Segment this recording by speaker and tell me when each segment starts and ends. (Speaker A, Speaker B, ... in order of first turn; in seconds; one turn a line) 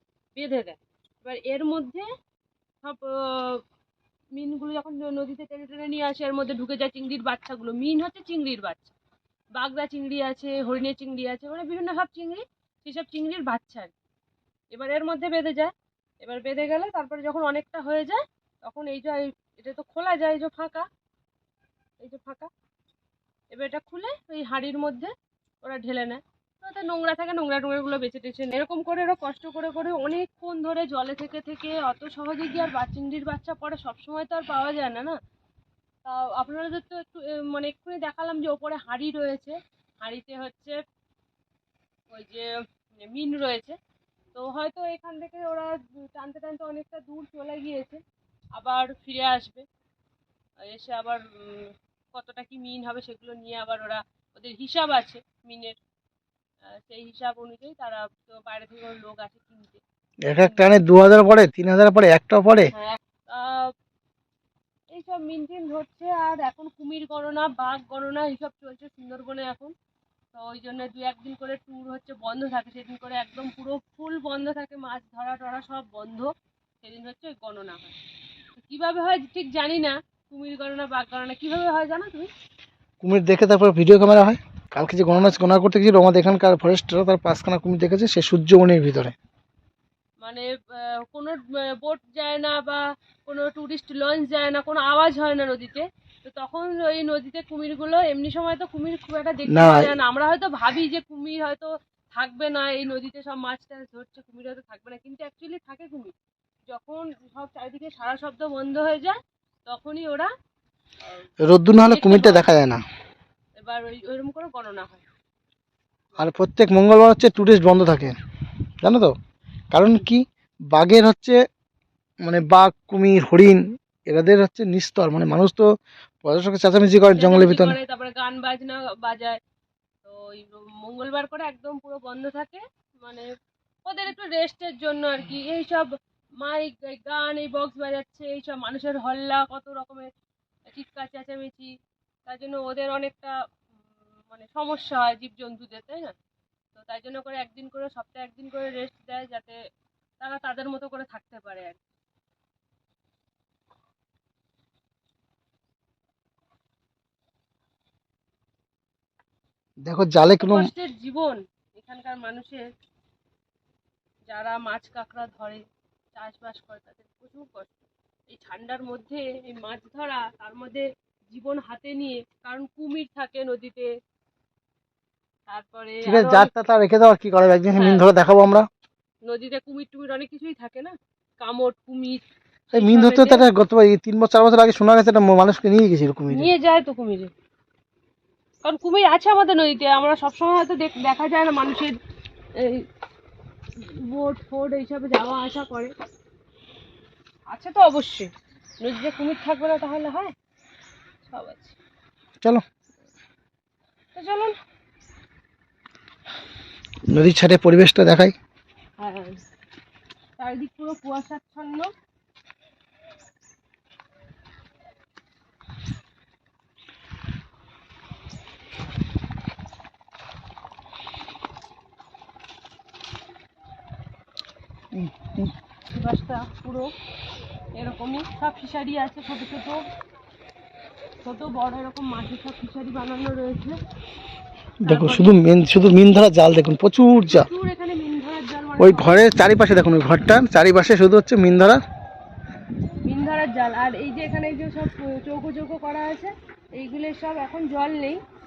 Speaker A: 0.3-2.1
Speaker A: 2.8-3.6
Speaker A: 4.3-9.0
Speaker A: 9.6-13.9
Speaker A: 14.7-20.9
Speaker A: 22.0-22.5
Speaker A: 23.5-25.1
Speaker A: 25.6-35.2
Speaker A: 36.0-40.8
Speaker A: 42.1-43.8
Speaker A: 44.4-48.0
Speaker A: 48.5-49.6
Speaker A: 50.7-55.8
Speaker A: 56.8-59.8
Speaker B: 60.3-62.7
Speaker A: 62.7-63.7
Speaker A: 64.9-69.7
Speaker A: 70.3-77.9
Speaker A: 78.6-82.3
Speaker B: 83.0-89.2
Speaker A: 90.2-106.1
Speaker B: 99.5-99.9
Speaker A: 106.7-110.3
Speaker B: 111.4-112.8
Speaker A: 111.8-112.5
Speaker A: 113.6-115.0
Speaker B: 116.2-118.2
Speaker B: 118.8-119.1
Speaker B: 119.7-121.4
Speaker B: 122.2-125.7
Speaker B: 126.2-127.8
Speaker A: 127.2-129.4
Speaker A: 130.1-133.3
Speaker A: 133.9-135.9
Speaker A: 136.4-140.1
Speaker A: 140.7-141.7
Speaker A: 142.3-143.3
Speaker A: 144.3-146.1
Speaker A: 146.7-149.6
Speaker A: 150.2-151.8
Speaker B: 159.8-160.7
Speaker A: 160.4-162.7
Speaker A: 164.3-165.6
Speaker A: 166.2-167.8
Speaker A: 168.3-173.9
Speaker A: 175.5-176.5
Speaker B: 176.0-178.7
Speaker A: 177.8-178.1
Speaker A: 179.2-182.2
Speaker B: 182.7-186.5
Speaker A: 182.7-183.5
Speaker A: 186.3-187.3
Speaker A: 188.6-192.0
Speaker A: 192.6-192.9
Speaker A: 193.8-195.9
Speaker A: 197.5-198.3
Speaker A: 198.8-200.3
Speaker A: 201.3-201.8
Speaker A: 204.2-204.6
Speaker B: 207.1-208.3
Speaker A: 209.0-209.4
Speaker A: 210.4-211.9
Speaker B: 224.9-225.5
Speaker A: 225.9-226.9
Speaker A: 227.8-229.8
Speaker A: 231.2-233.8
Speaker B: 234.8-237.5
Speaker A: 234.8-235.4
Speaker A: 237.3-239.2
Speaker B: 238.8-241.8
Speaker A: 243.0-248.2